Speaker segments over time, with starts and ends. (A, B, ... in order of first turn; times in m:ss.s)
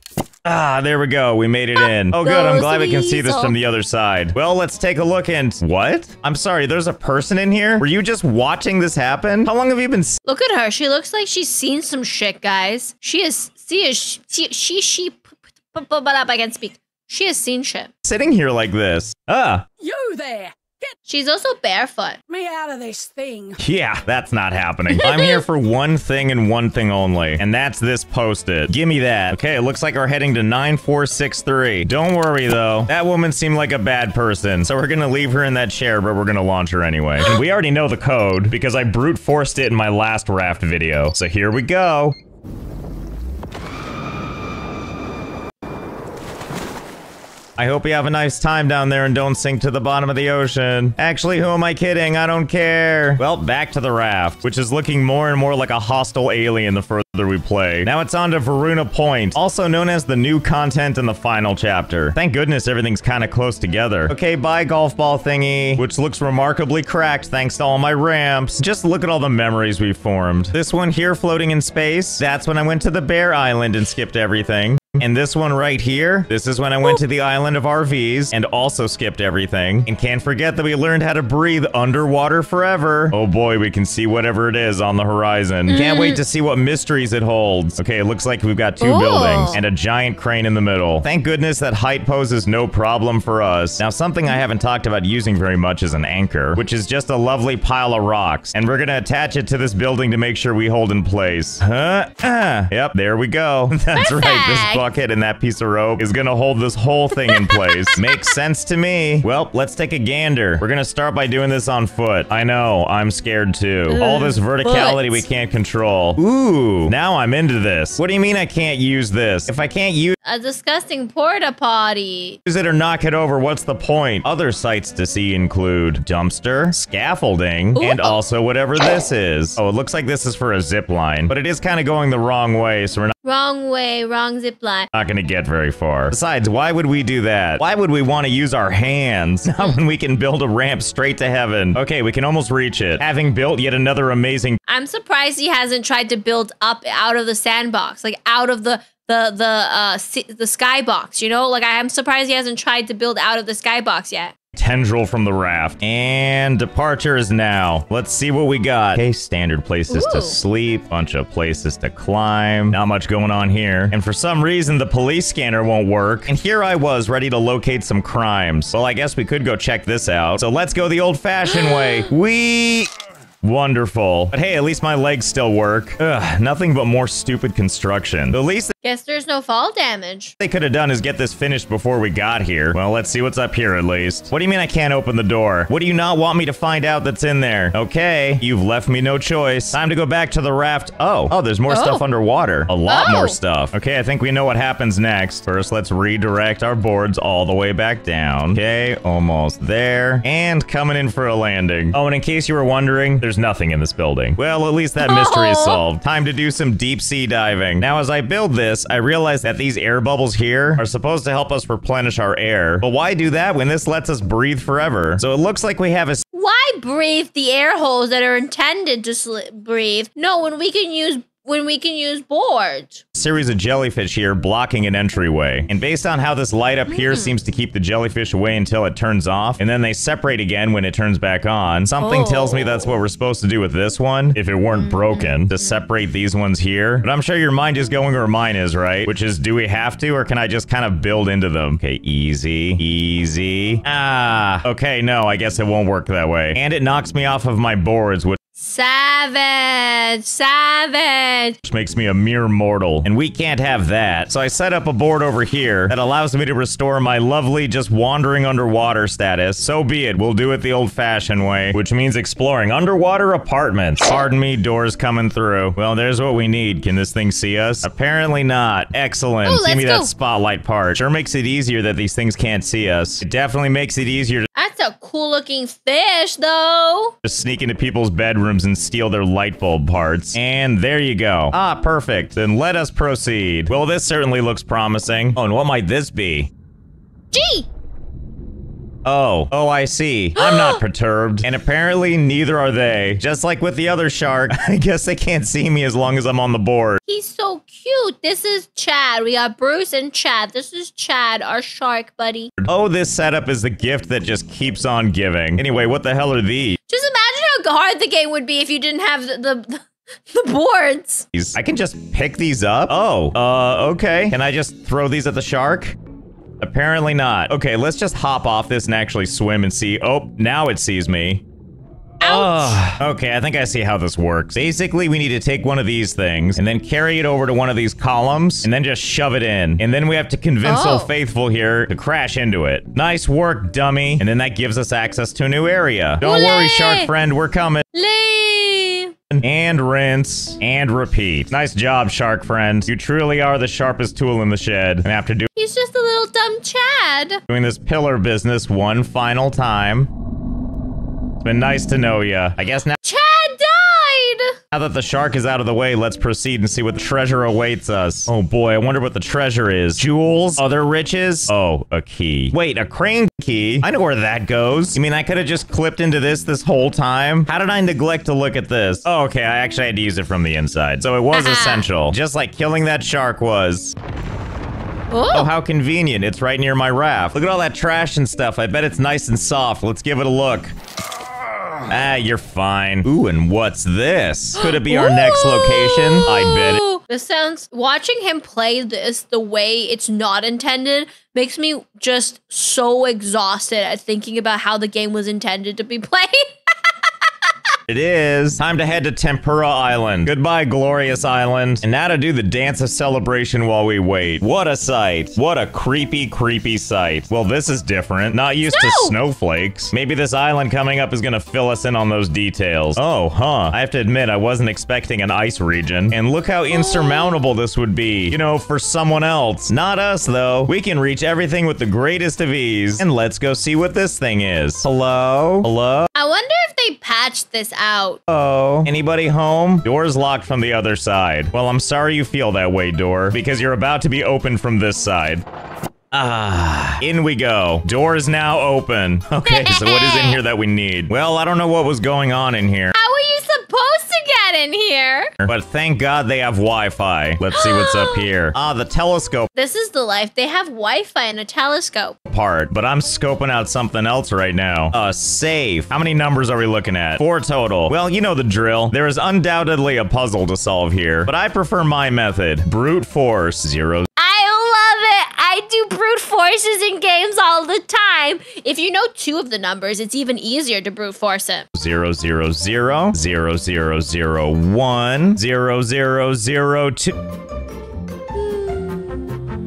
0:00.4-0:10.2 A
0:01.8-0:03.5 B
0:10.2-0:17.9 B
0:18.0-0:19.6 A
0:19.8-0:20.9 C
0:21.1-0:22.2 B
0:22.3-0:23.6 C
0:23.6-0:42.2 A
0:24.9-0:25.4 B
0:47.6-2:00.2 A
1:25.7-1:26.2 B
1:28.8-1:29.6 B
1:44.0-1:44.8 B
1:47.2-1:48.3 B
1:53.9-1:55.2 B
2:00.2-2:02.4 B
2:02.5-2:13.1 A
2:07.8-2:08.2 B
2:13.2-2:14.9 B
2:14.9-2:24.6 A
2:24.7-2:34.3 B
2:34.5-2:52.9 A
2:39.9-2:40.4 B
2:53.4-2:58.7 A
2:58.8-3:00.4 B
3:00.4-3:36.2 A
3:11.7-3:12.0 B
3:12.9-3:13.4 B
3:25.0-3:25.8 B
3:36.3-3:43.0 B
3:43.2-4:08.4 A
3:46.9-3:47.3 B
3:52.0-3:52.9 B
3:54.9-3:55.2 B
4:08.6-4:11.6 B
4:11.6-4:34.5 A
4:29.4-4:30.1 B
4:34.6-4:37.2 B
4:37.2-4:46.5 A
4:47.3-4:47.7 B
4:49.0-4:57.0 A
4:50.4-4:50.8 B
4:57.0-5:02.5 B
5:02.6-5:06.8 A
5:06.9-5:11.3 B
5:11.3-5:16.0 A
5:16.6-5:21.4 A
5:22.2-5:22.8 B
5:22.2-5:37.9 A
5:30.6-5:31.1 B
5:36.2-5:37.1 B
5:37.9-5:39.1 B
5:39.3-5:45.5 A
5:45.6-5:47.4 B
5:47.5-5:50.1 A
5:51.4-5:53.0 A
5:53.0-5:54.6 B
5:54.7-6:14.0 A
6:11.3-6:11.8 B
6:15.1-6:15.5 B
6:15.3-6:20.7 A
6:21.8-6:26.8 A
6:24.6-6:36.5 B
6:37.9-7:06.1 A
6:48.7-6:49.2 B
6:56.7-6:57.4 B
7:06.2-7:08.2 B
7:08.3-7:15.4 A
7:16.1-7:23.0 A
7:19.4-7:20.4 B
7:22.9-7:25.4 B
7:25.4-7:29.5 A
7:27.6-7:28.3 B
7:29.5-7:32.2 B
7:32.3-7:44.1 A
7:44.2-7:51.7 B
7:51.7-7:57.2 A